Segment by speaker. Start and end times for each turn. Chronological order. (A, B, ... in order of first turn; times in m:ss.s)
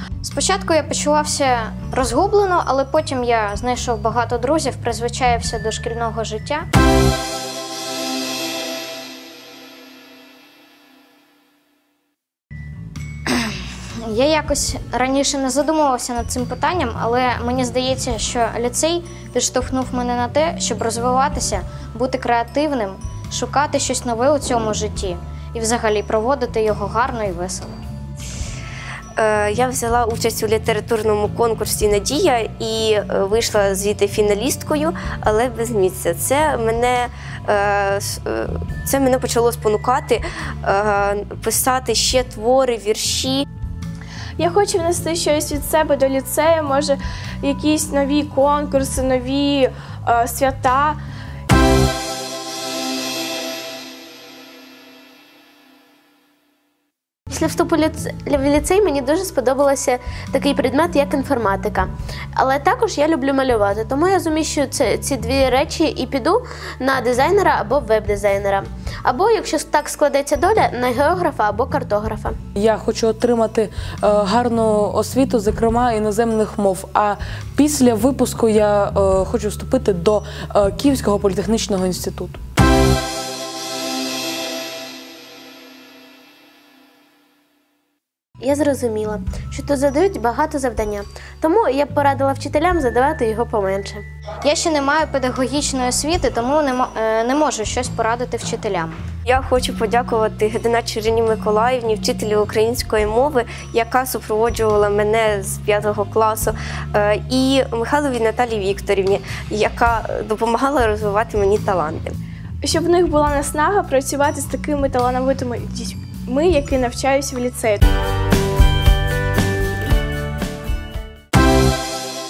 0:00.2-0:06.6 A
0:14.0-0:27.7 A
0:29.2-0:43.4 B
0:44.4-0:51.0 C
0:57.3-1:12.4 D
1:12.6-1:22.4 E
1:28.4-1:34.0 D
1:34.4-1:39.0 A
1:39.2-1:52.1 B
1:52.6-1:57.9 C